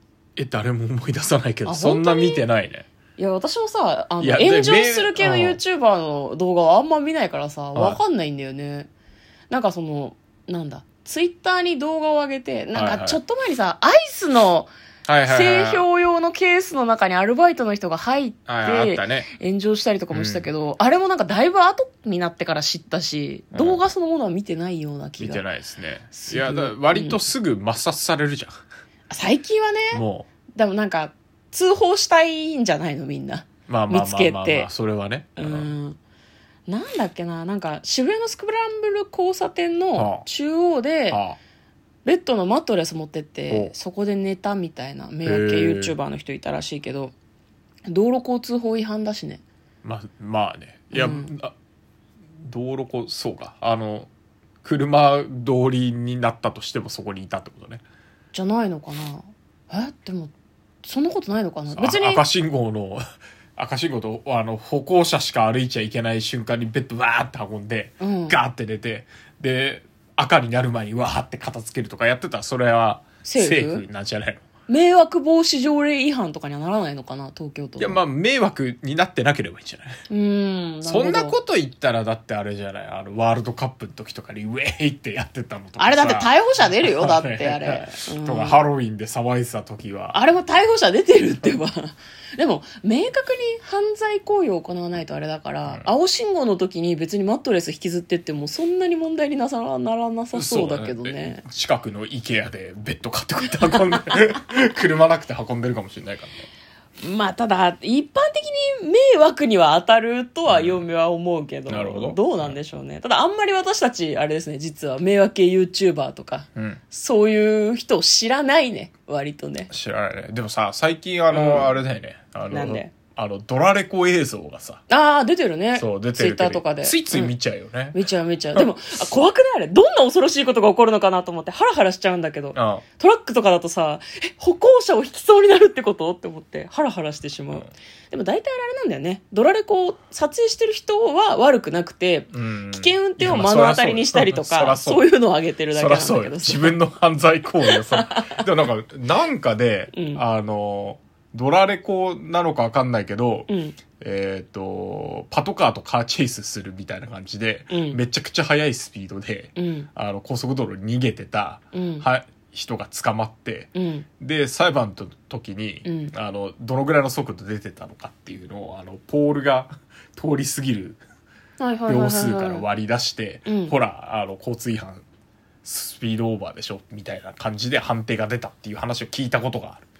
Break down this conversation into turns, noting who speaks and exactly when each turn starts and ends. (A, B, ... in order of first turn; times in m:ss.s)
0:00.4-0:02.9 A
0:01.6-0:02.4 B
0:03.2-0:08.9 B
0:04.2-0:05.6 A
0:07.7-0:08.0 A
0:09.5-0:14.7 B
0:12.7-0:13.2 A
0:15.0-0:15.8 A
0:15.3-0:25.4 B
0:18.5-0:19.3 A
0:20.1-0:20.5 A
0:23.5-0:23.8 A
0:25.2-0:28.6 A
0:26.1-0:27.2 B
0:29.1-0:30.0 B
0:29.9-0:30.3 A
0:30.6-0:34.7 B
0:33.7-0:35.7 A
0:35.4-0:36.0 B
0:36.7-0:41.2 B
0:39.9-0:40.2 A
0:41.1-0:41.4 A
0:42.0-0:47.1 B
0:45.2-0:45.9 A
0:47.9-0:49.4 B
0:49.8-0:51.5 A
0:50.9-0:51.3 B
0:52.4-0:54.1 A
0:54.6-0:57.8 A
0:58.3-1:02.2 B
1:01.7-1:03.0 A
1:03.6-1:14.4 A
1:08.0-1:08.4 B
1:13.2-1:13.8 B
1:14.7-1:18.0 B
1:17.8-1:20.0 A
1:20.1-1:21.4 B
1:20.8-1:30.2 A
1:25.8-1:28.6 B
1:30.1-1:41.4 B
1:40.3-1:46.5 A
1:47.0-1:59.7 B
1:50.5-1:50.8 A
1:51.7-1:52.6 A
1:59.7-2:04.8 A
2:01.3-2:01.8 B
2:02.5-2:02.9 B
2:04.9-2:07.3 B
2:05.7-2:08.0 A
2:07.9-2:26.8 B
2:12.5-2:12.8 A
2:22.3-2:25.0 A
2:25.7-2:51.0 A
2:27.6-2:28.4 B
2:29.9-2:30.2 B
2:33.5-2:33.8 B
2:37.7-2:38.0 B
2:39.6-2:39.9 B
2:41.7-2:42.0 B
2:43.7-2:44.1 B
2:45.8-2:46.1 B
2:51.6-2:52.6 B
2:51.9-2:55.0 A
2:53.5-2:53.7 B
2:55.6-2:59.8 A